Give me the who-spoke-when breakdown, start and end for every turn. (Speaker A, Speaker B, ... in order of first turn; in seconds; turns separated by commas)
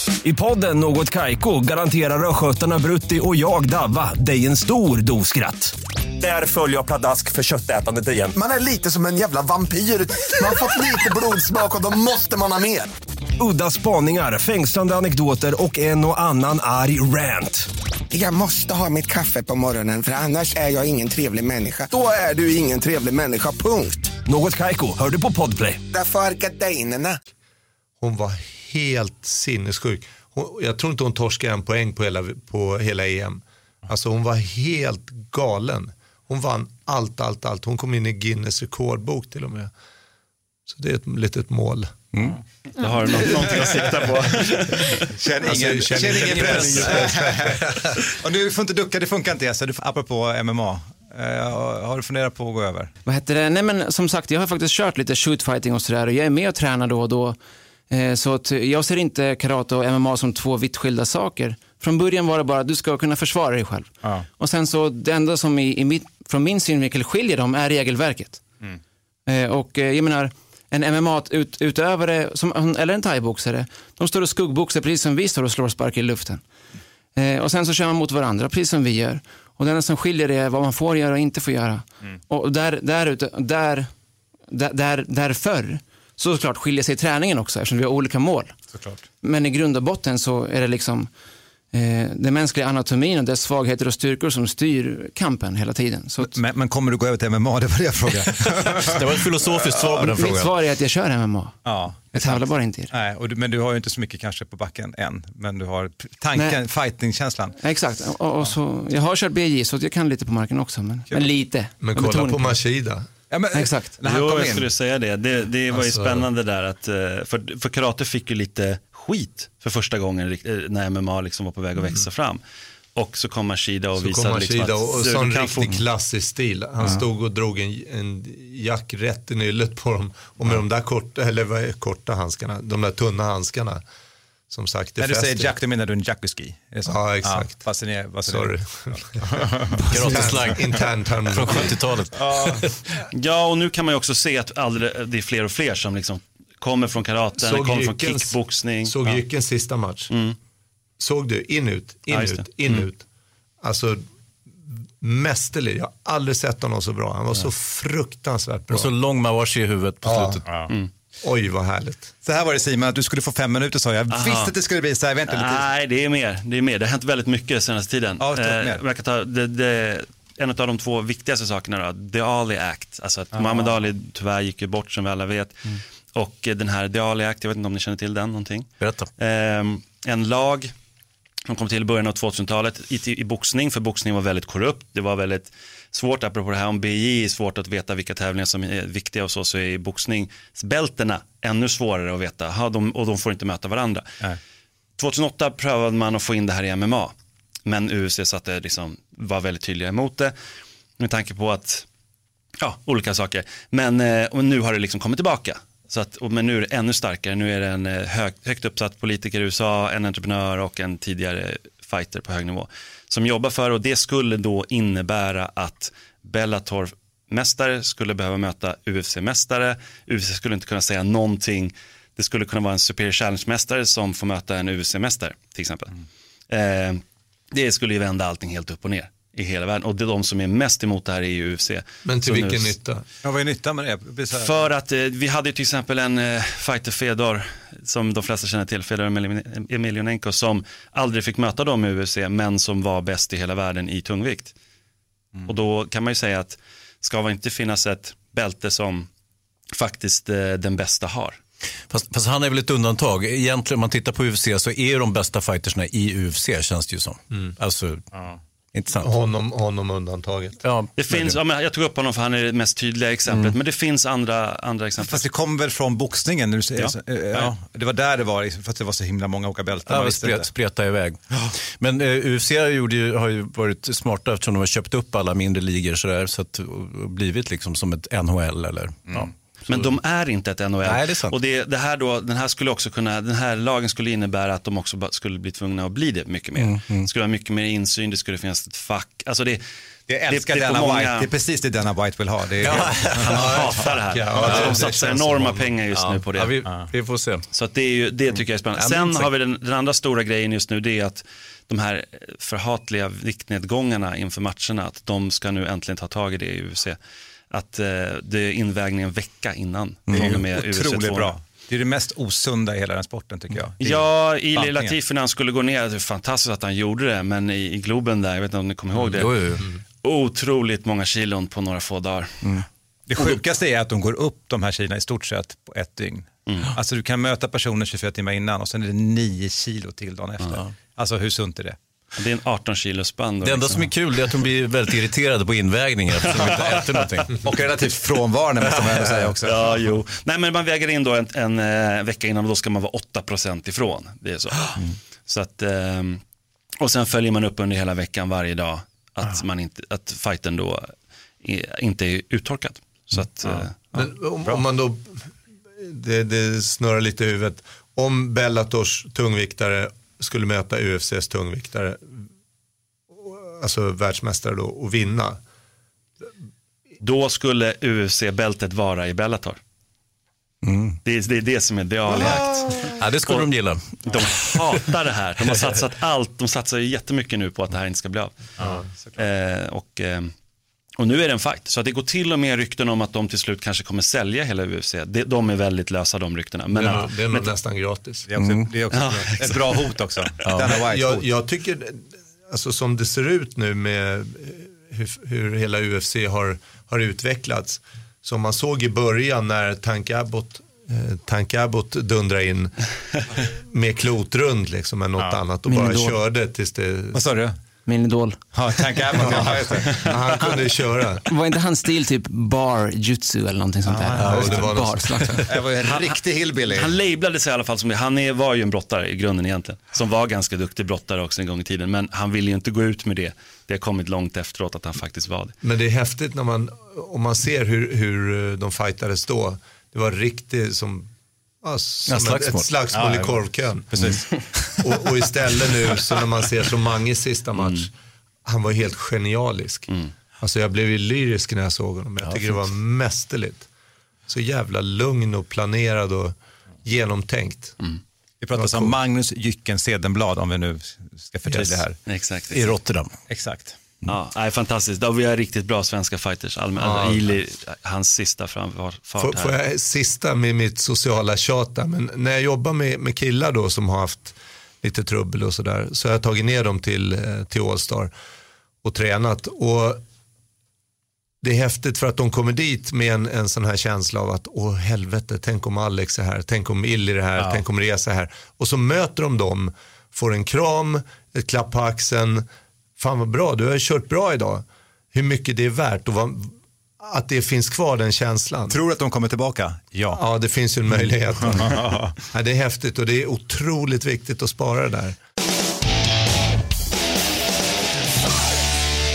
Speaker A: 0.2-8.8, Speaker B: 8.4-9.7, Speaker A: 9.6-10.8, Speaker B: 10.3-12.9, Speaker A: 13.4-17.7, Speaker B: 18.1-24.1, Speaker A: 24.2-25.8, Speaker B: 25.9-27.2, Speaker C: 28.0-39.7, Speaker C: 40.6-42.1, Speaker D: 42.8-45.1, Speaker E: 43.1-44.5, Speaker E: 45.1-52.9, Speaker C: 45.4-47.9, Speaker D: 46.1-46.9, Speaker F: 53.0-57.4, Speaker F: 57.9-68.4, Speaker F: 69.3-76.4, Speaker F: 77.1-83.9, Speaker F: 84.5-88.6, Speaker E: 88.7-89.0, Speaker F: 89.2-91.1, Speaker F: 91.7-96.3, Speaker E: 96.2-100.1, Speaker G: 98.8-100.5, Speaker F: 100.1-102.9, Speaker E: 101.6-107.6, Speaker F: 106.3-106.6, Speaker F: 107.6-112.6, Speaker C: 111.8-113.1, Speaker E: 113.3-114.7, Speaker F: 113.5-113.9, Speaker D: 114.0-122.4, Speaker C: 115.7-116.3, Speaker C: 121.8-122.0, Speaker D: 123.0-125.8, Speaker C: 124.0-133.8, Speaker C: 134.5-135.5, Speaker E: 135.0-140.3, Speaker C: 136.8-137.7, Speaker C: 138.2-141.7, Speaker G: 139.9-142.7, Speaker E: 141.5-142.7, Speaker D: 143.1-149.0, Speaker C: 147.4-150.1, Speaker D: 150.1-150.3, Speaker C: 151.0-153.0, Speaker D: 152.1-152.8, Speaker C: 153.6-154.0, Speaker C: 155.0-158.9, Speaker G: 158.7-160.4, Speaker C: 160.0-160.4, Speaker E: 160.5-160.7, Speaker C: 161.2-162.1, Speaker E: 162.2-165.7, Speaker D: 164.1-164.5, Speaker D: 165.3-180.7, Speaker E: 168.2-168.8, Speaker E: 173.3-173.8, Speaker G: 178.8-179.1, Speaker D: 181.5-194.2, Speaker D: 195.0-197.1, Speaker D: 197.7-200.3, Speaker D: 201.0-201.8, Speaker D: 202.6-225.9, Speaker D: 226.5-232.7, Speaker C: 232.0-233.0, Speaker E: 233.2-234.6, Speaker D: 234.3-244.5, Speaker D: 245.4-249.1, Speaker D: 249.7-251.4, Speaker G: 251.9-258.0, Speaker E: 258.1-258.4, Speaker G: 258.7-259.1, Speaker C: 259.0-260.6, Speaker G: 260.6-261.4, Speaker D: 261.0-265.3, Speaker G: 263.3-263.5, Speaker E: 265.0-270.5, Speaker G: 266.8-267.5, Speaker G: 269.9-271.2, Speaker G: 271.7-279.9, Speaker D: 279.7-289.6, Speaker G: 280.8-281.4, Speaker G: 286.6-287.1, Speaker E: 290.1-293.7, Speaker D: 290.3-291.3, Speaker G: 292.6-293.6, Speaker D: 293.2-296.8, Speaker C: 293.3-295.1, Speaker E: 294.3-295.6, Speaker G: 294.4-294.8, Speaker G: 295.9-297.4, Speaker D: 297.5-307.0, Speaker G: 298.7-299.3, Speaker D: 307.5-311.3, Speaker G: 310.1-310.4, Speaker E: 310.1-314.9, Speaker D: 313.8-319.3, Speaker G: 318.9-319.6, Speaker D: 320.0-322.4, Speaker E: 323.1-331.8, Speaker D: 326.5-326.7, Speaker D: 332.2-333.9, Speaker G: 333.4-337.4, Speaker D: 336.2-337.1, Speaker E: 336.4-336.6, Speaker E: 337.4-339.7, Speaker D: 339.4-346.2, Speaker D: 346.8-353.7, Speaker E: 353.4-354.6, Speaker C: 353.9-362.2, Speaker C: 363.1-365.4, Speaker D: 367.0-369.6, Speaker G: 370.6-371.0, Speaker D: 371.0-373.5, Speaker E: 372.1-373.0, Speaker G: 372.9-374.6, Speaker D: 374.1-378.6, Speaker E: 378.6-379.2, Speaker C: 378.6-378.8, Speaker D: 379.1-380.3, Speaker D: 381.0-387.4, Speaker C: 386.7-388.3, Speaker E: 388.3-391.2, Speaker G: 388.4-388.7, Speaker D: 388.9-390.0, Speaker G: 390.4-390.7, Speaker C: 390.7-402.7, Speaker C: 403.3-407.2, Speaker F: 405.7-406.2, Speaker E: 407.1-407.6, Speaker F: 407.9-408.4, Speaker E: 408.5-410.5, Speaker C: 409.2-411.2, Speaker F: 411.3-415.4, Speaker E: 413.9-414.7, Speaker C: 414.2-415.5, Speaker E: 415.4-416.9, Speaker D: 415.9-416.1, Speaker D: 416.7-425.5, Speaker C: 425.6-431.1, Speaker C: 431.6-433.9, Speaker G: 432.1-432.7, Speaker E: 432.9-434.4, Speaker C: 434.8-437.9, Speaker D: 437.6-437.9, Speaker C: 438.4-439.9, Speaker C: 440.4-443.7, Speaker G: 442.2-442.6, Speaker C: 444.3-447.8, Speaker E: 448.4-452.0, Speaker C: 448.5-448.9, Speaker C: 451.4-451.8, Speaker D: 452.1-452.7, Speaker G: 452.5-453.1, Speaker E: 453.3-453.8, Speaker D: 454.0-459.5, Speaker C: 456.8-457.3, Speaker C: 459.2-468.1, Speaker C: 468.8-470.0, Speaker C: 471.4-482.4, Speaker E: 477.4-477.6, Speaker C: 483.0-488.8, Speaker E: 488.7-490.2, Speaker C: 490.1-495.2, Speaker E: 491.4-492.1